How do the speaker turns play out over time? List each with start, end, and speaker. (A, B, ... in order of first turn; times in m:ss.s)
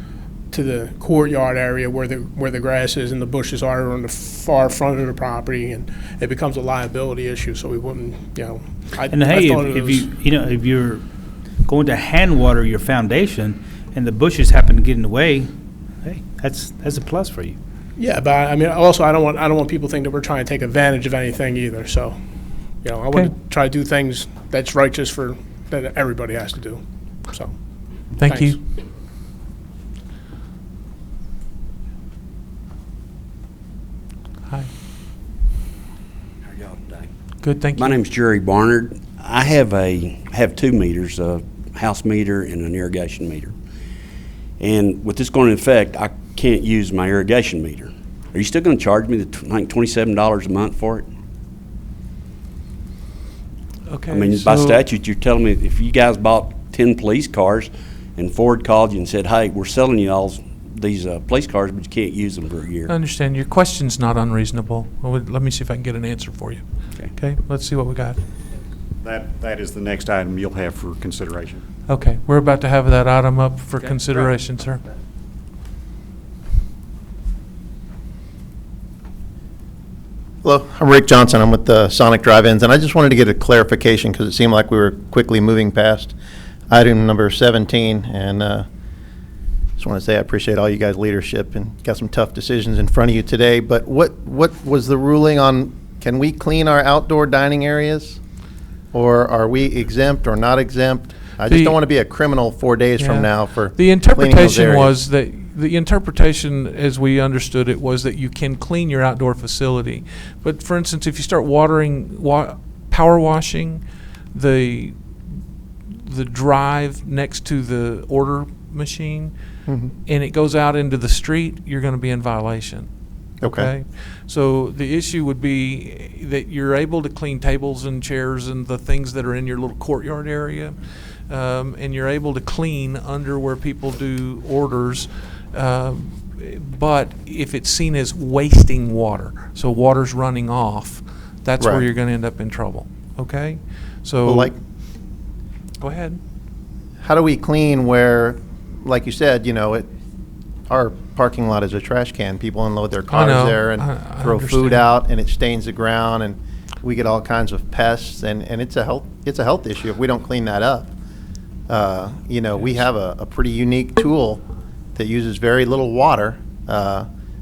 0:00.5-0:10.2 A
0:09.1-0:11.0 B
0:11.6-0:15.5 B
0:16.0-0:17.6 B
0:18.0-0:22.2 A
0:22.8-0:27.6 A
0:28.2-0:28.6 C
0:28.2-0:28.6 A
0:36.5-0:37.1 D
0:37.4-0:38.0 C
0:37.7-0:43.6 D
0:44.6-0:51.0 D
0:53.9-0:54.8 C
0:54.1-1:02.9 D
1:02.9-1:06.6 C
1:07.1-1:08.2 C
1:09.0-1:11.6 E
1:11.9-1:14.8 C
1:20.4-1:26.1 F
1:26.7-1:28.7 F
1:29.8-1:38.2 F
1:38.9-1:44.9 F
1:41.5-1:41.8 C
1:43.0-1:53.8 C
1:54.3-1:55.0 C
1:56.0-1:59.3 C
1:59.6-1:59.9 F
2:00.0-2:02.9 C
2:03.4-2:03.7 F
2:03.4-2:10.8 C
2:11.3-2:24.5 C
2:21.6-2:21.9 F
2:24.2-2:24.6 F
2:25.8-2:26.2 C
2:27.0-2:29.9 F
2:30.7-2:40.9 F
2:33.1-2:34.8 C
2:41.7-2:44.4 F
2:44.9-2:47.1 F